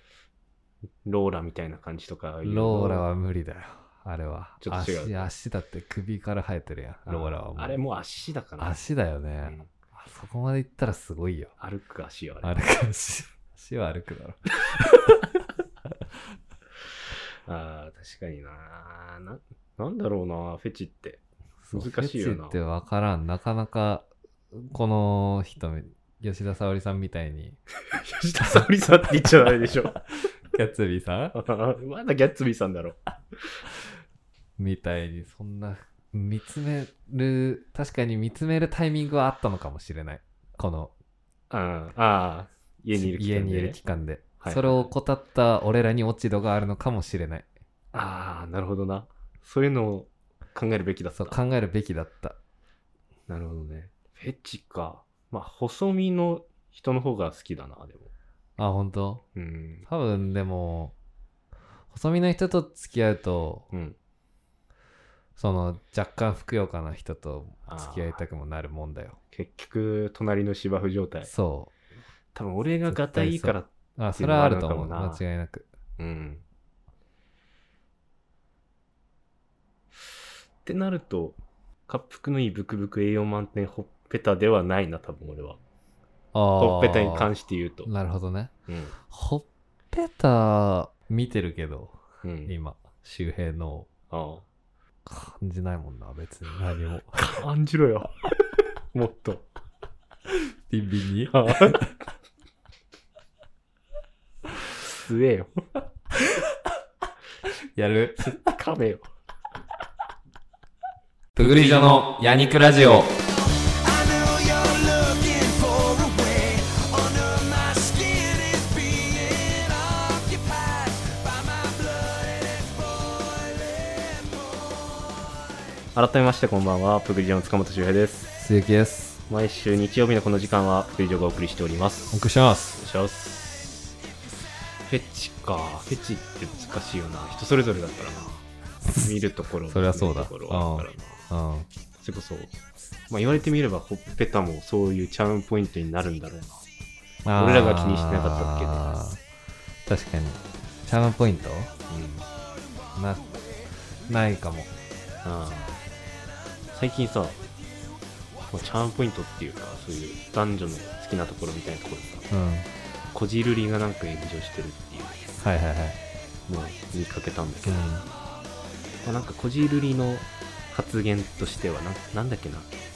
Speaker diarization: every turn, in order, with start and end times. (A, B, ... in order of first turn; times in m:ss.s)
0:01.0-0:03.0 A
0:02.4-0:07.8 B
0:04.6-0:05.3 A
0:07.1-0:08.8 A
0:08.6-0:11.5 B
0:09.4-0:09.7 A
0:11.6-0:12.6 A
0:12.4-0:15.2 B
0:17.5-0:21.2 A
0:21.6-0:27.6 B
0:21.7-0:22.6 A
0:27.9-0:29.9 A
0:29.2-0:30.0 B
0:30.5-0:31.3 B
0:31.3-0:33.0 A
0:34.6-0:40.9 B
0:41.5-0:43.8 A
0:42.9-0:47.5 B
0:44.4-0:44.9 A
0:47.9-0:51.4 A
0:51.2-0:52.4 B
0:53.3-0:58.1 A
0:58.6-0:59.2 B
0:59.4-0:59.8 A
0:59.8-1:00.9 B
1:01.9-1:03.7 B
1:05.4-1:09.2 B
1:07.7-1:08.2 A
1:09.3-1:11.3 A
1:11.3-1:11.7 B
1:12.3-1:15.2 A
1:12.9-1:15.7 B
1:16.0-1:16.4 A
1:20.6-1:25.6 A
1:26.3-1:27.3 B
1:26.6-1:27.9 A
1:27.8-1:28.5 B
1:28.7-1:28.9 A
1:29.1-1:33.9 B
1:32.2-1:32.5 A
1:34.1-1:34.4 A
1:35.0-1:37.2 B
1:37.2-1:38.1 A
1:38.9-1:39.5 A
1:40.7-1:41.9 B
1:41.3-1:41.8 A
1:44.8-1:45.5 A
1:47.7-1:48.3 B
1:48.2-1:49.1 A
1:51.3-1:53.1 B
1:53.9-2:01.8 C
2:05.9-2:08.3 A
2:08.4-2:09.2 B
2:09.3-2:12.2 A
2:12.1-2:12.8 B
2:12.8-2:13.7 A
2:14.9-2:18.4 A
2:19.0-2:21.2 A
2:19.7-2:21.7 B
2:22.0-2:22.5 A
2:23.1-2:26.6 A
2:27.2-2:29.2 B
2:27.4-2:28.8 A
2:29.8-2:31.7 B
2:31.9-2:32.3 A
2:33.0-2:33.3 B
2:34.1-2:34.7 B
2:35.2-2:35.8 A
2:36.7-2:37.4 A
2:38.5-2:42.3 A
2:42.3-2:42.7 B
2:43.1-2:45.2 A
2:45.4-2:46.0 B
2:46.5-2:47.9 A
2:47.6-2:48.0 B
2:49.0-2:52.7 A